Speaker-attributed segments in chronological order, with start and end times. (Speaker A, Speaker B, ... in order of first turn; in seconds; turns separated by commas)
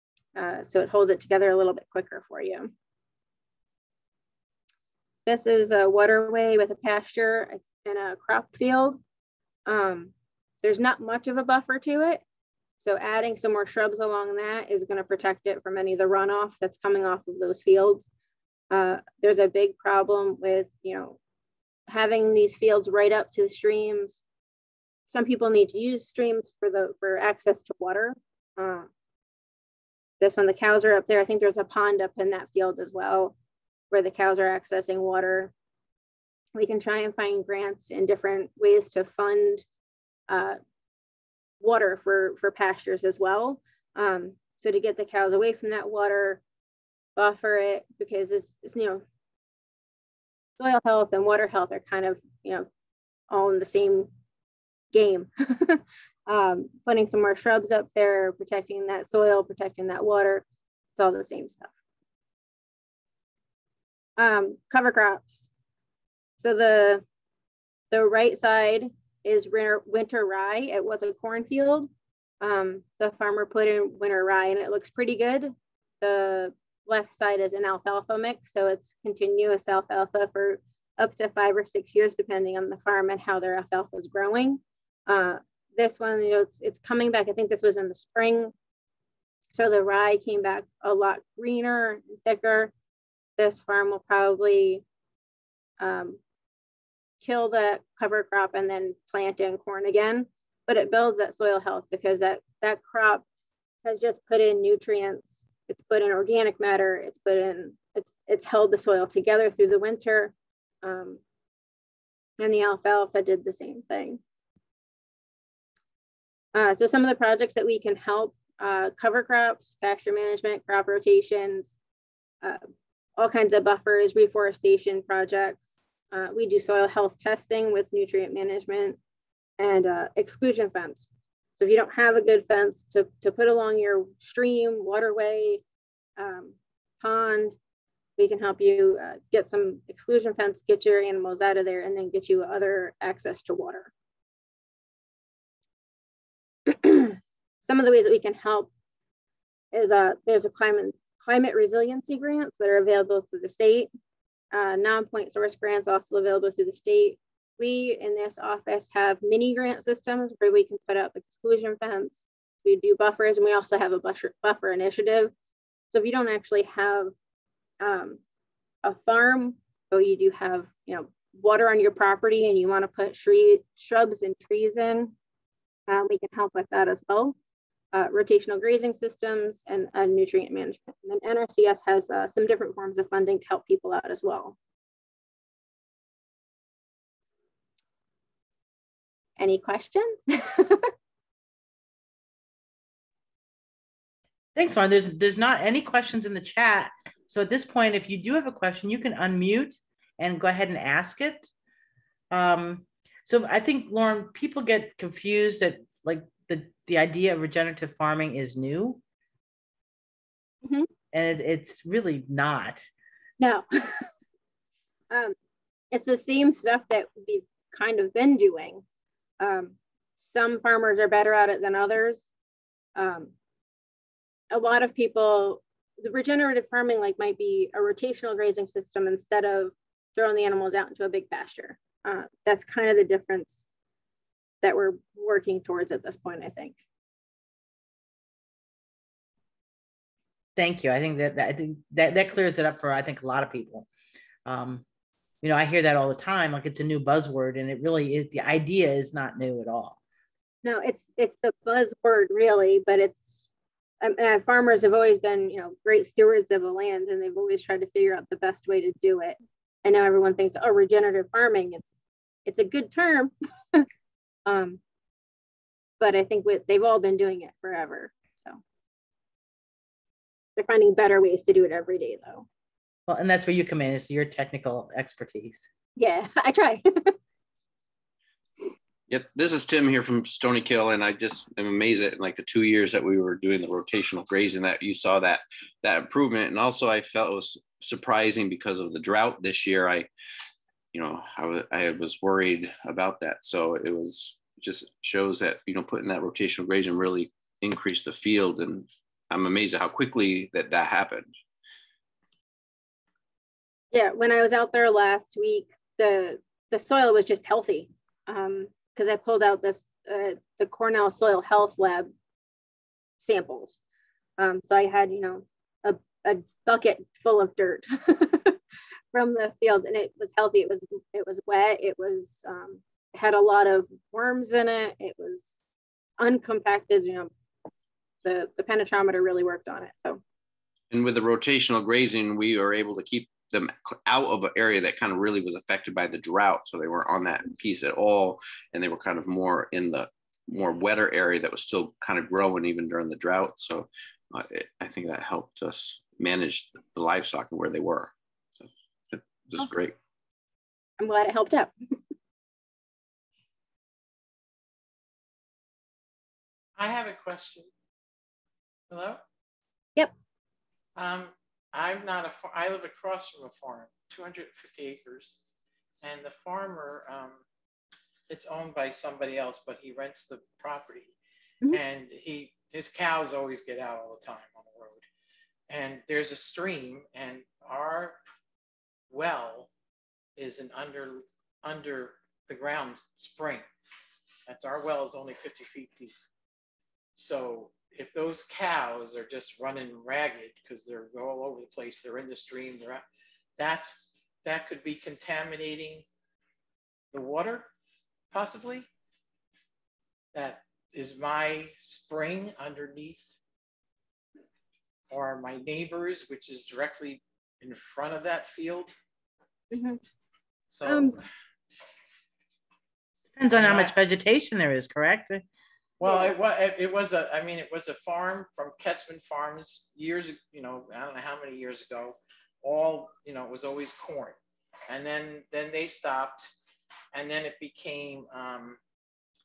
Speaker A: 0.3-2.7, Speaker A: 5.2-9.0, Speaker A: 9.7-12.2, Speaker A: 12.8-18.1, Speaker A: 18.7-21.2, Speaker A: 21.9-24.2, Speaker A: 25.1-28.9, Speaker A: 30.2-33.3, Speaker A: 33.9-35.5, Speaker A: 36.5-39.6, Speaker A: 40.3-40.6, Speaker A: 41.6-46.4, Speaker A: 47.1-49.0, Speaker A: 50.6-52.7, Speaker A: 53.3-54.1, Speaker A: 54.9-60.4, Speaker A: 61.0-61.7, Speaker A: 64.2-65.5, Speaker A: 66.4-67.0, Speaker A: 67.9-71.9, Speaker A: 72.4-88.5, Speaker A: 89.5-92.7, Speaker A: 93.4-94.8, Speaker A: 95.8-96.2, Speaker A: 97.2-103.2, Speaker A: 103.8-111.2, Speaker A: 112.4-114.2, Speaker A: 116.5-121.7, Speaker A: 123.2-129.0, Speaker A: 129.6-135.6, Speaker A: 136.2-137.6, Speaker A: 138.2-143.9, Speaker A: 146.7-148.7, Speaker A: 149.7-153.9, Speaker A: 154.5-165.3, Speaker A: 165.9-167.1, Speaker A: 167.8-168.2, Speaker A: 168.8-175.1, Speaker A: 175.9-177.3, Speaker A: 177.9-184.6, Speaker A: 189.4-190.9, Speaker B: 194.5-201.5, Speaker B: 202.3-209.0, Speaker B: 211.1-212.8, Speaker A: 213.4-214.1, Speaker A: 215.9-218.8, Speaker A: 219.4-222.3, Speaker A: 222.9-223.3, Speaker A: 224.5-233.6, Speaker A: 234.6-236.8, Speaker B: 240.6-243.9, Speaker B: 244.4-244.8, Speaker B: 245.4-250.0, Speaker A: 250.6-253.4, Speaker A: 254.0-261.8, Speaker A: 262.4-263.9, Speaker A: 264.4-264.8, Speaker A: 266.0-268.6, Speaker A: 270.6-272.4, Speaker B: 273.1-275.7, Speaker A: 276.0-277.2, Speaker C: 279.1-290.1, Speaker C: 290.9-301.3, Speaker A: 303.9-312.1, Speaker A: 313.2-313.8, Speaker A: 314.4-318.6, Speaker A: 319.1-325.6, Speaker A: 326.2-327.3, Speaker A: 328.2-330.2, Speaker C: 330.9-350.0, Speaker A: 351.0-351.7, Speaker D: 356.8-357.7, Speaker D: 358.9-359.2, Speaker D: 360.9-365.4, Speaker D: 366.0-367.4, Speaker D: 368.3-371.1, Speaker D: 371.7-375.0, Speaker D: 375.7-378.2, Speaker D: 379.1-379.7, Speaker D: 380.4-383.6, Speaker D: 384.5-386.1, Speaker D: 387.1-393.0, Speaker D: 393.6-396.1, Speaker D: 397.1-397.7, Speaker D: 398.3-398.9, Speaker D: 400.3-403.3, Speaker D: 405.1-408.9, Speaker A: 409.7-410.0, Speaker D: 410.7-411.2, Speaker A: 410.8-411.2, Speaker B: 413.4-415.4, Speaker D: 413.5-413.9, Speaker D: 416.0-424.4, Speaker A: 416.0-416.3, Speaker D: 424.9-426.5, Speaker D: 427.1-428.8